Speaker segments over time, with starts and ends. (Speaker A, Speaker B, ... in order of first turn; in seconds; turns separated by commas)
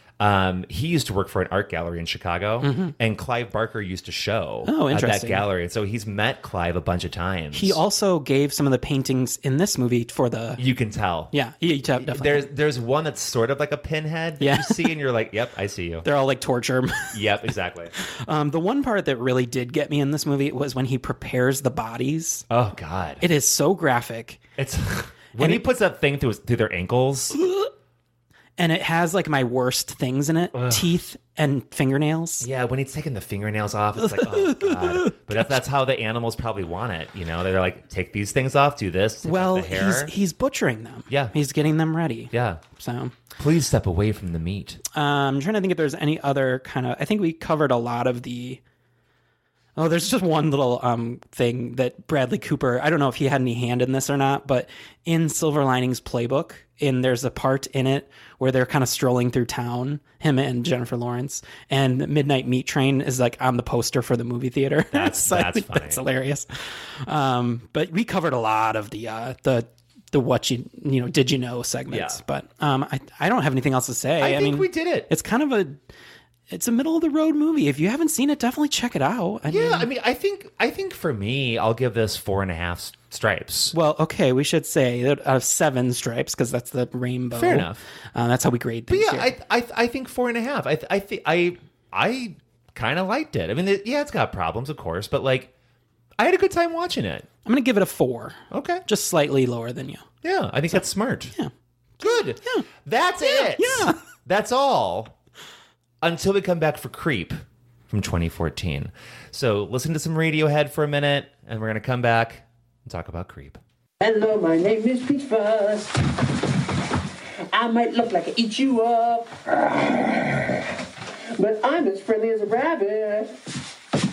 Speaker A: 0.2-7.8, Speaker B: 2.6-2.9, Speaker B: 4.6-5.4, Speaker B: 7.5-10.6, Speaker A: 10.6-11.3, Speaker B: 11.3-12.5, Speaker A: 12.0-16.0, Speaker B: 14.4-14.9, Speaker B: 16.0-17.2, Speaker A: 17.1-17.9, Speaker B: 18.0-22.4, Speaker A: 22.5-23.2, Speaker B: 23.2-24.4, Speaker A: 24.6-27.4, Speaker B: 25.4-25.6, Speaker B: 27.4-27.7, Speaker B: 28.6-32.5, Speaker A: 30.5-30.9, Speaker A: 32.4-40.1, Speaker B: 34.0-35.4, Speaker B: 39.2-43.1, Speaker A: 41.1-41.3, Speaker A: 42.3-42.6, Speaker A: 43.4-44.8, Speaker B: 44.9-48.6, Speaker B: 49.8-66.5, Speaker A: 64.9-66.0, Speaker B: 67.0-75.8, Speaker A: 71.9-72.2, Speaker A: 74.2-75.1, Speaker B: 76.5-79.9, Speaker A: 79.5-83.7, Speaker B: 83.7-89.3, Speaker A: 87.3-87.8, Speaker A: 88.9-95.5, Speaker A: 96.2-97.3, Speaker B: 97.5-100.0, Speaker A: 98.5-98.8, Speaker A: 100.2-101.3, Speaker B: 100.7-102.7, Speaker A: 102.0-105.1, Speaker B: 103.2-104.0, Speaker A: 106.0-113.6, Speaker C: 114.0-116.0, Speaker C: 117.5-120.7, Speaker C: 121.4-123.3